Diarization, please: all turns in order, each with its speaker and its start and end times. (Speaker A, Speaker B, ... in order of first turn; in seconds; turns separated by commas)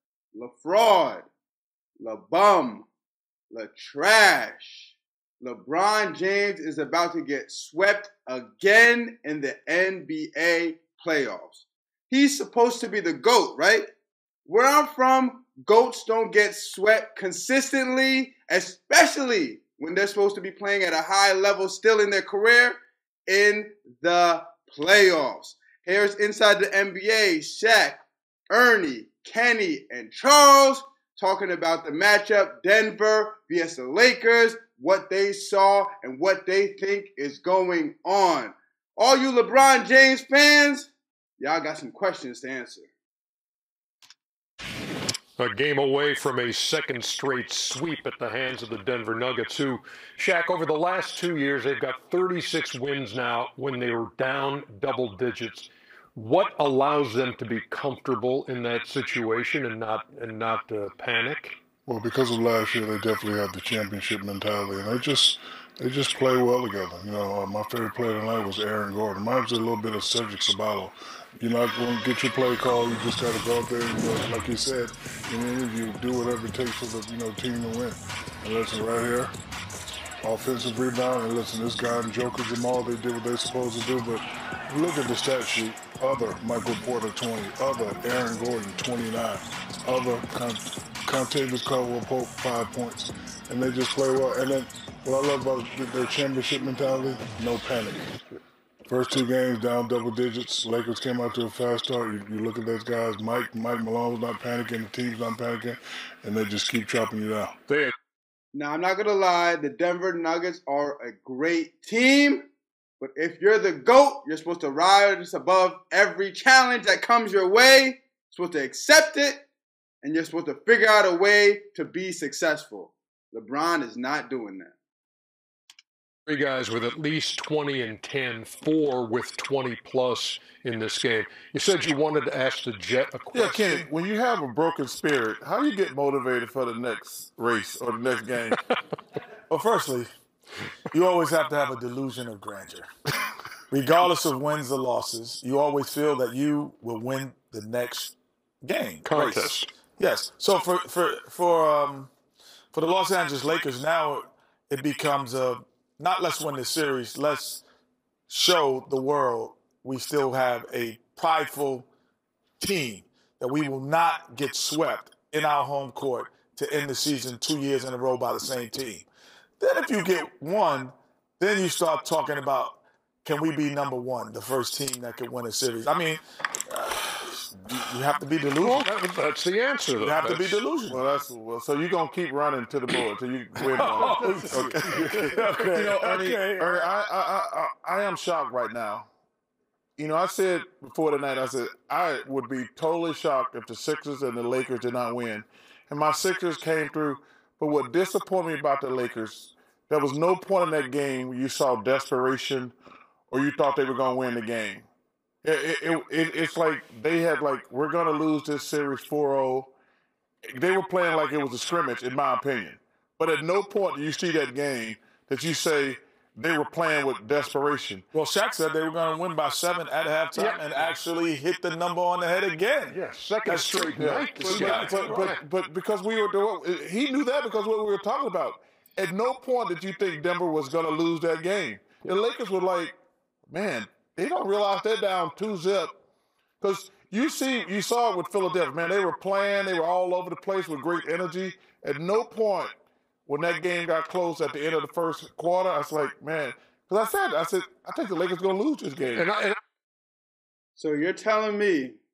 Speaker A: 0.3-1.3, Speaker A: 2.0-2.9, Speaker A: 3.5-13.9, Speaker A: 14.5-42.9, Speaker B: 45.4-61.6, Speaker C: 61.9-79.3, Speaker C: 80.2-98.1, Speaker C: 98.9-107.6, Speaker A: 108.5-112.5, Speaker A: 113.0-119.5, Speaker A: 120.0-124.8, Speaker B: 126.3-133.9, Speaker D: 133.3-138.6, Speaker E: 139.5-140.1, Speaker E: 140.9-142.9, Speaker E: 143.7-152.1, Speaker B: 149.0-149.7, Speaker E: 152.7-157.6, Speaker E: 158.3-161.9, Speaker E: 162.6-169.1, Speaker E: 169.6-178.9, Speaker B: 178.6-180.6, Speaker E: 180.0-181.0, Speaker D: 180.9-189.1, Speaker E: 183.6-186.8, Speaker B: 184.0-185.3, Speaker D: 190.0-202.8, Speaker D: 203.3-204.9, Speaker D: 205.4-209.7, Speaker D: 210.5-218.0, Speaker E: 218.1-223.8, Speaker B: 220.3-220.9, Speaker B: 222.9-225.4, Speaker D: 223.7-233.0, Speaker E: 224.6-225.1, Speaker D: 233.5-236.0, Speaker D: 236.6-242.7, Speaker D: 243.3-249.3, Speaker B: 249.2-249.6, Speaker A: 250.8-252.0